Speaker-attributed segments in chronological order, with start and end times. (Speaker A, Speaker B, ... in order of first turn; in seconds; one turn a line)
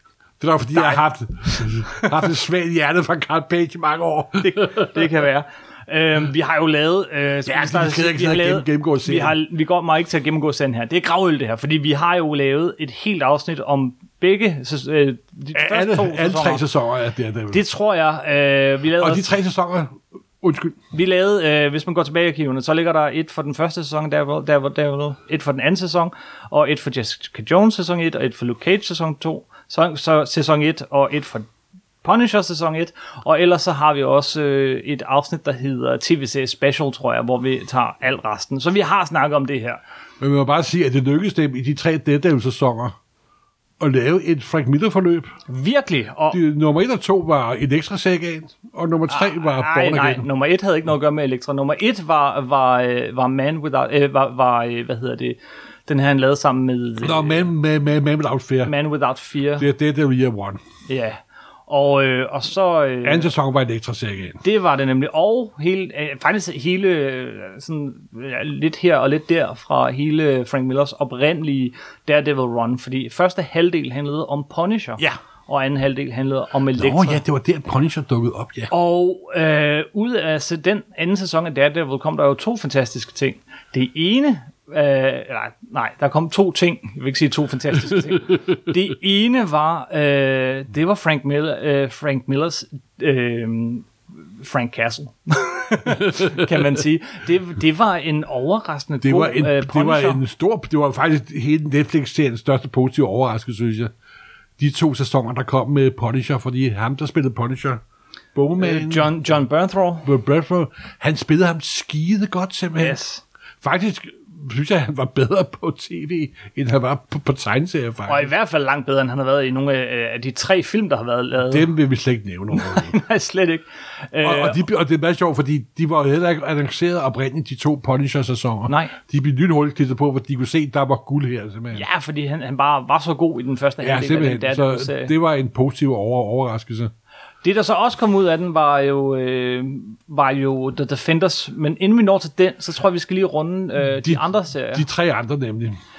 Speaker A: 0.4-5.1
Speaker B: 0.7-2.2
Speaker B: 4.4-16.6
Speaker A: 7.5-9.3
Speaker A: 15.5-17.6
Speaker B: 17.5-19.3
Speaker A: 19.0-20.8
Speaker B: 20.9-31.5
Speaker B: 32.0-39.8
Speaker A: 40.2-43.0
Speaker A: 43.8-45.3
Speaker B: 45.5-46.4
Speaker A: 46.3-50.3
Speaker B: 49.1-57.5
Speaker A: 57.0-58.7
Speaker B: 58.6-59.7
Speaker A: 59.6-60.6
Speaker B: 60.9-63.3
Speaker A: 63.0-64.4
Speaker B: 64.4-77.2
Speaker A: 76.8-78.7
Speaker B: 78.7-100.2
Speaker A: 95.8-96.6
Speaker A: 99.0-103.9
Speaker A: 104.6-107.8
Speaker A: 108.3-109.1
Speaker B: 108.6-110.1
Speaker A: 110.0-113.0
Speaker B: 112.8-113.2
Speaker A: 113.6-118.3
Speaker B: 118.0-121.7
Speaker A: 121.5-123.0
Speaker B: 122.5-124.6
Speaker A: 124.2-131.8
Speaker B: 128.7-128.9
Speaker B: 131.7-135.1
Speaker A: 133.8-136.9
Speaker B: 137.4-144.8
Speaker A: 143.9-145.8